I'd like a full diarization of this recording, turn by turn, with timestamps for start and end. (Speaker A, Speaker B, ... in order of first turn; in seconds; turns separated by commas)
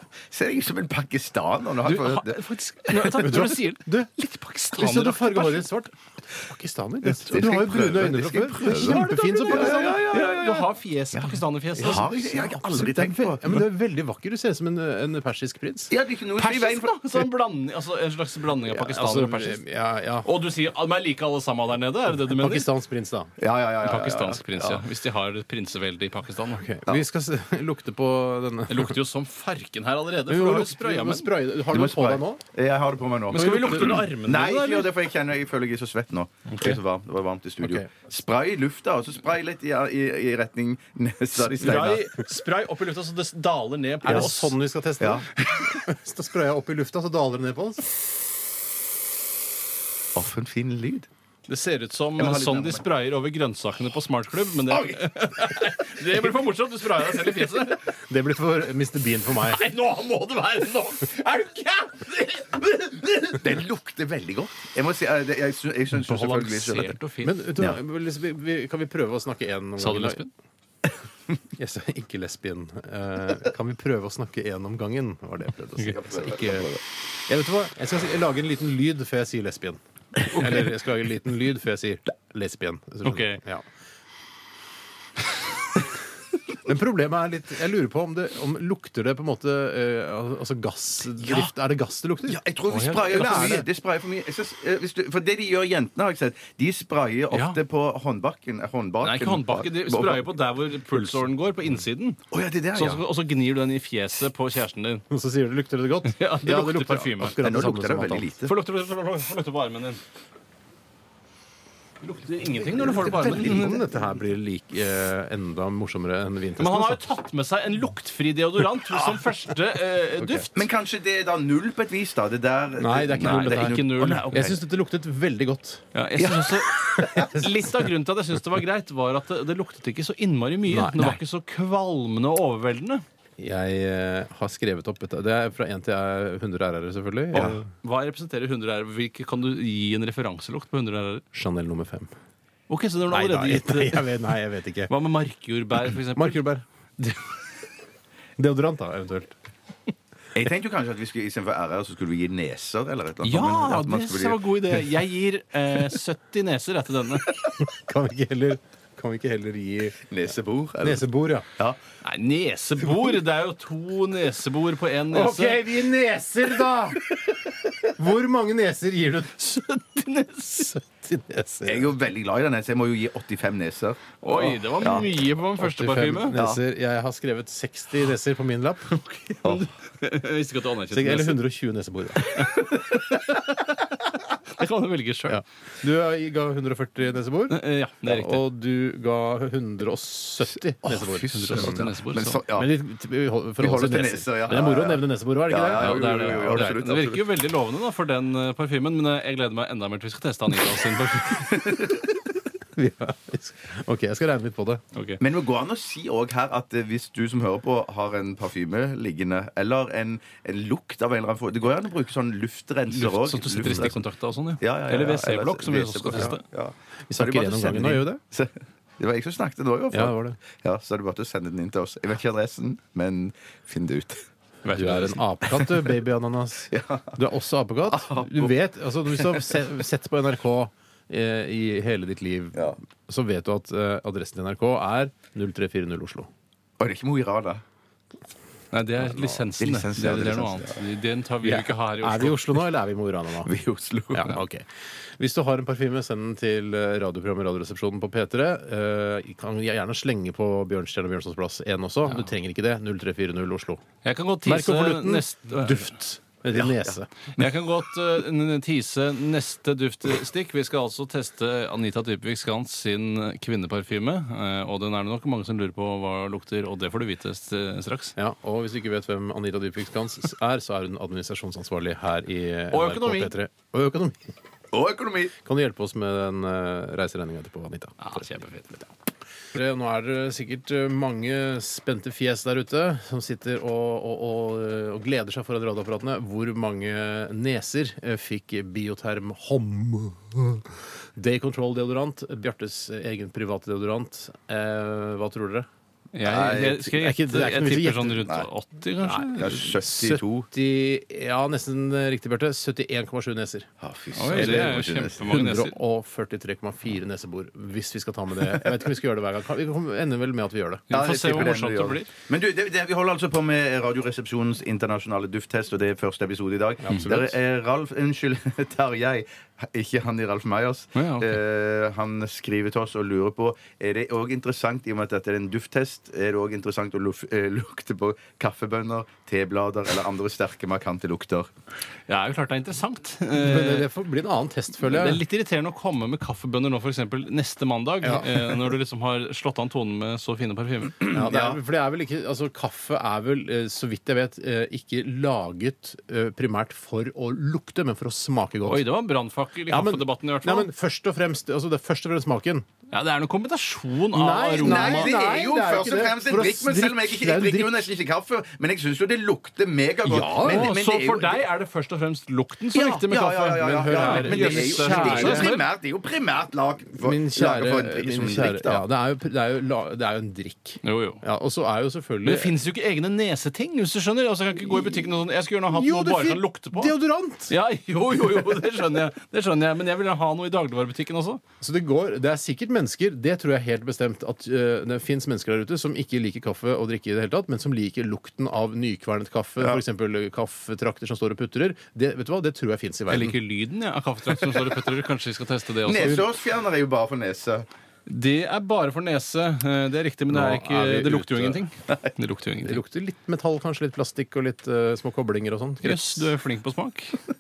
Speaker A: 0.3-2.4, Speaker B: 1.8-5.7, Speaker C: 3.0-4.2, Speaker C: 4.7-10.7, Speaker A: 7.2-10.4, Speaker B: 8.7-12.1, Speaker A: 11.1-11.4, Speaker C: 11.8-16.0, Speaker A: 12.0-13.7, Speaker A: 15.9-17.0, Speaker B: 16.4-19.6, Speaker C: 18.6-20.3, Speaker B: 20.2-22.7, Speaker C: 22.3-23.3, Speaker A: 23.4-24.8, Speaker B: 23.8-26.7, Speaker C: 26.5-29.0, Speaker B: 28.7-31.3, Speaker C: 30.3-32.4, Speaker A: 31.7-42.0, Speaker B: 33.3-35.0, Speaker C: 33.3-34.0, Speaker B: 36.5-36.8, Speaker C: 37.6-38.1, Speaker B: 41.4-44.6, Speaker C: 44.0-48.0, Speaker A: 45.0-45.7, Speaker A: 50.1-51.1, Speaker B: 51.5-57.9, Speaker A: 52.2-52.9, Speaker A: 54.7-55.0, Speaker C: 57.9-59.7, Speaker B: 59.4-63.5, Speaker A: 63.3-67.0, Speaker B: 65.9-67.5, Speaker C: 67.2-70.2, Speaker B: 69.8-70.3, Speaker C: 71.6-83.7, Speaker A: 75.9-76.8, Speaker B: 83.0-83.4, Speaker C: 86.6-92.5, Speaker A: 92.3-100.4, Speaker B: 92.7-93.6, Speaker C: 93.0-93.7, Speaker B: 97.3-97.6, Speaker B: 99.0-102.2, Speaker A: 100.9-101.2, Speaker A: 102.3-102.9, Speaker B: 102.7-105.0, Speaker C: 105.1-108.5, Speaker B: 106.0-107.4, Speaker A: 106.5-108.5, Speaker B: 108.4-110.0, Speaker B: 112.0-113.9, Speaker C: 112.8-117.1, Speaker A: 112.8-113.7, Speaker B: 116.6-120.7, Speaker A: 118.9-119.2, Speaker C: 120.2-120.5, Speaker A: 120.5-124.6, Speaker C: 122.8-127.7, Speaker B: 123.2-124.6, Speaker B: 125.9-133.0, Speaker C: 130.7-131.2, Speaker C: 133.4-137.7, Speaker B: 137.3-141.2, Speaker A: 137.3-137.6, Speaker C: 141.3-142.1, Speaker B: 142.7-144.1, Speaker C: 143.1-144.9, Speaker B: 144.9-146.4, Speaker C: 146.2-146.6, Speaker C: 148.4-149.3, Speaker A: 150.3-154.4, Speaker B: 153.2-157.4, Speaker C: 157.6-160.2, Speaker A: 160.1-161.8, Speaker C: 160.8-161.5, Speaker B: 162.0-165.7, Speaker C: 165.1-169.4, Speaker B: 169.4-170.8, Speaker C: 170.6-172.0, Speaker A: 171.7-174.0, Speaker B: 174.2-176.4, Speaker C: 174.3-174.6, Speaker A: 174.8-175.2, Speaker C: 175.6-179.2, Speaker A: 176.3-176.6, Speaker B: 179.2-181.4, Speaker A: 179.4-179.7, Speaker C: 180.9-182.4, Speaker B: 182.2-185.4, Speaker C: 185.3-191.9, Speaker B: 187.5-188.4, Speaker A: 190.9-192.7, Speaker B: 191.1-192.4, Speaker C: 192.5-196.9, Speaker A: 193.6-197.3, Speaker B: 195.7-202.1, Speaker C: 202.8-204.8, Speaker B: 204.9-205.2, Speaker A: 205.2-214.0, Speaker B: 212.9-216.4, Speaker C: 213.6-213.9, Speaker A: 214.6-224.2, Speaker C: 216.1-216.4, Speaker C: 217.1-218.2, Speaker C: 219.9-220.4, Speaker B: 224.7-225.2, Speaker C: 224.7-236.3, Speaker A: 225.5-225.9, Speaker A: 226.7-227.2, Speaker A: 227.9-229.6, Speaker A: 232.5-232.8, Speaker A: 236.8-237.6, Speaker B: 238.7-242.4, Speaker C: 239.0-239.4, Speaker A: 239.6-240.8, Speaker C: 241.4-243.5, Speaker A: 243.4-244.2, Speaker C: 244.1-244.7, Speaker C: 245.2-253.8, Speaker B: 254.0-255.9, Speaker C: 254.4-257.1, Speaker A: 256.5-256.9, Speaker B: 257.4-268.1, Speaker C: 268.2-274.2, Speaker B: 272.7-273.3, Speaker A: 274.7-275.4, Speaker C: 275.4-278.2, Speaker B: 278.0-278.9, Speaker C: 279.5-295.7, Speaker B: 296.1-299.8, Speaker C: 296.2-298.2, Speaker A: 296.3-296.8, Speaker A: 298.2-298.5, Speaker C: 299.0-303.7, Speaker A: 299.4-300.5, Speaker A: 303.8-305.2, Speaker B: 304.1-305.8, Speaker C: 304.3-310.9, Speaker B: 310.9-312.1, Speaker A: 310.9-331.5, Speaker C: 316.8-317.4, Speaker B: 316.9-317.2, Speaker B: 320.9-321.4, Speaker B: 332.1-333.9, Speaker C: 333.3-335.2, Speaker B: 334.8-341.2, Speaker C: 338.0-338.6, Speaker C: 341.1-348.9, Speaker A: 341.1-341.6, Speaker B: 348.6-350.7, Speaker C: 349.7-352.6, Speaker B: 352.9-354.9, Speaker C: 354.1-357.9, Speaker A: 354.6-361.5, Speaker C: 360.0-360.8, Speaker B: 360.4-365.6, Speaker A: 362.7-368.9, Speaker C: 363.9-365.5, Speaker C: 367.0-372.6, Speaker B: 370.8-371.2, Speaker B: 372.2-376.9, Speaker C: 375.7-377.6, Speaker B: 377.5-381.4, Speaker C: 381.6-393.4, Speaker A: 389.6-389.8, Speaker B: 393.1-396.3, Speaker A: 395.8-397.7, Speaker B: 398.1-402.8, Speaker C: 400.3-401.6, Speaker C: 402.6-406.4, Speaker B: 405.8-407.2